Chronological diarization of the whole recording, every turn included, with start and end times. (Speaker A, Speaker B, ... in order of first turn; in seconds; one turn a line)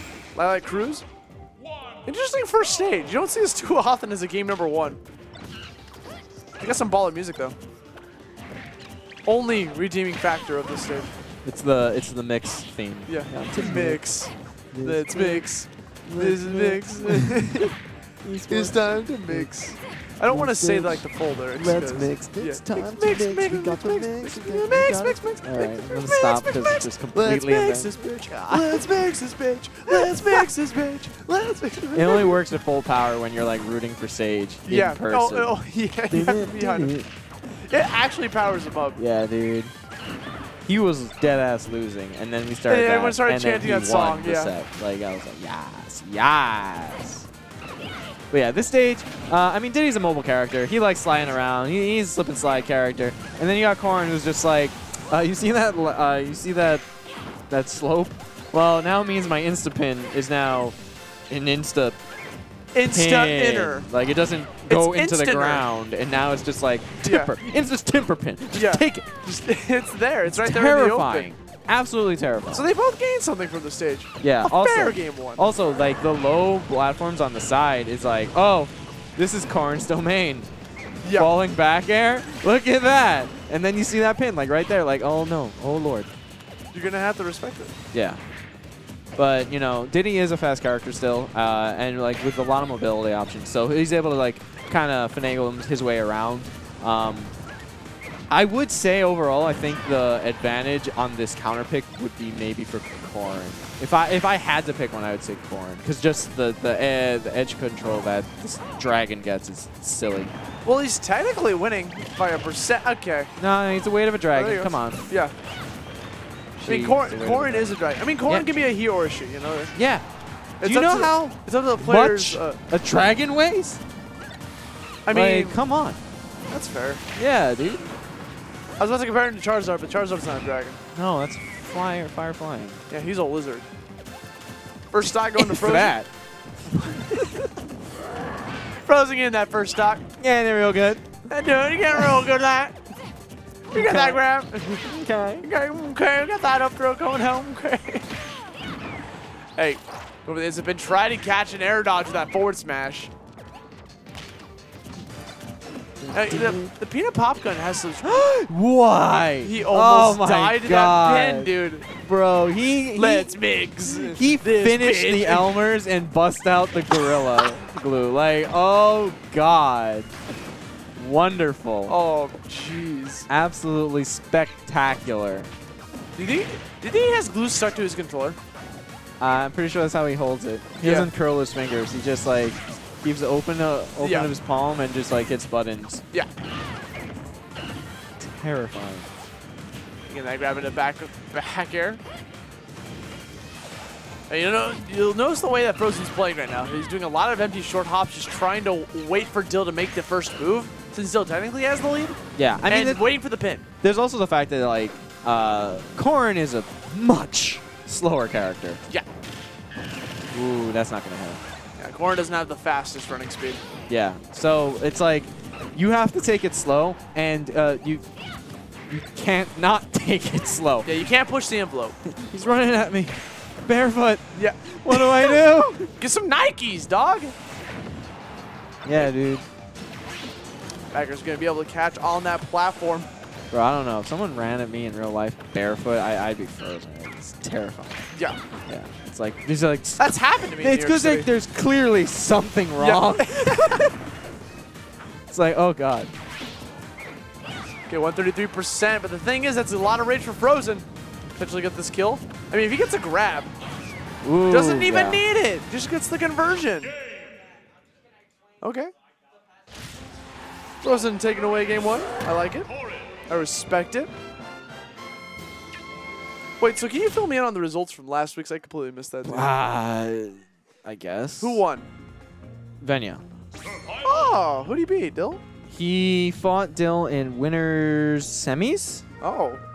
Speaker A: 0.3-1.0
Speaker A: 2.0-5.0
Speaker A: 6.6-7.6
Speaker A: 9.2-11.1
Speaker B: 11.4-17.7
Speaker A: 13.1-17.8
Speaker B: 18.2-19.8
Speaker A: 18.5-32.4
Speaker B: 20.3-28.9
Speaker B: 29.9-30.5
Speaker B: 31.9-35.5
Speaker A: 34.7-39.0
Speaker B: 36.1-37.1
Speaker B: 39.0-39.7
Speaker B: 40.7-47.3
Speaker A: 42.7-44.5
Speaker B: 48.3-56.8
Speaker B: 57.5-60.8
Speaker B: 61.3-62.0
Speaker A: 62.7-63.9
Speaker B: 62.8-69.1
Speaker A: 64.7-65.7
Speaker A: 67.0-67.4
Speaker A: 68.5-71.3
Speaker B: 70.3-72.7
Speaker A: 72.5-75.5
Speaker B: 74.2-80.5
Speaker A: 81.0-81.3
Speaker B: 81.1-86.1
Speaker A: 86.7-87.7
Speaker B: 87.9-88.2
Speaker B: 89.2-97.3
Speaker B: 98.3-110.3
Speaker A: 110.7-113.3
Speaker B: 113.4-115.1
Speaker A: 114.3-115.3
Speaker B: 116.6-118.5
Speaker A: 116.7-119.8
Speaker B: 119.8-120.0
Speaker A: 120.6-122.6
Speaker B: 120.6-123.8
Speaker A: 125.1-125.6
Speaker B: 125.1-126.0
Speaker A: 126.5-127.0
Speaker B: 127.1-127.9
Speaker A: 128.8-130.8
Speaker B: 130.9-132.8
Speaker A: 132.9-133.6
Speaker A: 134.9-135.9
Speaker B: 135.4-136.1
Speaker B: 136.9-137.3
Speaker A: 138.8-140.0
Speaker B: 140.2-141.1
Speaker A: 141.3-142.8
Speaker A: 143.7-148.1
Speaker B: 143.7-144.2
Speaker B: 144.8-145.4
Speaker A: 149.6-153.1
Speaker B: 156.0-156.7
Speaker A: 156.1-158.2
Speaker B: 158.0-170.1
Speaker A: 159.4-161.9
Speaker A: 162.9-165.5
Speaker A: 166.9-167.4
Speaker B: 170.9-171.9
Speaker A: 171.9-173.3
Speaker B: 173.3-175.5
Speaker A: 176.2-178.4
Speaker B: 179.2-186.0
Speaker A: 180.8-181.1
Speaker A: 184.0-184.3
Speaker B: 188.2-189.1
Speaker A: 190.1-192.0
Speaker A: 194.3-203.6
Speaker B: 202.3-203.0
Speaker B: 203.8-208.8
Speaker B: 210.3-211.4
Speaker A: 211.8-213.7
Speaker B: 213.9-218.0
Speaker B: 218.9-220.9
Speaker A: 220.8-222.0
Speaker B: 222.0-225.9
Speaker A: 224.3-225.4
Speaker A: 226.0-227.3
Speaker B: 228.8-229.4
Speaker A: 230.9-233.1
Speaker B: 233.5-238.0
Speaker A: 238.1-238.4
Speaker B: 238.7-243.9
Speaker A: 240.0-241.3
Speaker A: 242.8-243.9
Speaker B: 245.3-246.1
Speaker A: 247.9-250.8
Speaker A: 251.4-253.5
Speaker B: 254.2-255.2
Speaker A: 254.5-256.9
Speaker A: 258.6-258.9
Speaker A: 260.8-262.7
Speaker A: 263.3-264.1
Speaker A: 266.6-269.6
Speaker B: 269.2-271.6
Speaker A: 271.4-271.9
Speaker B: 272.8-273.2
Speaker A: 274.0-275.4
Speaker B: 275.7-279.1
Speaker A: 279.2-279.6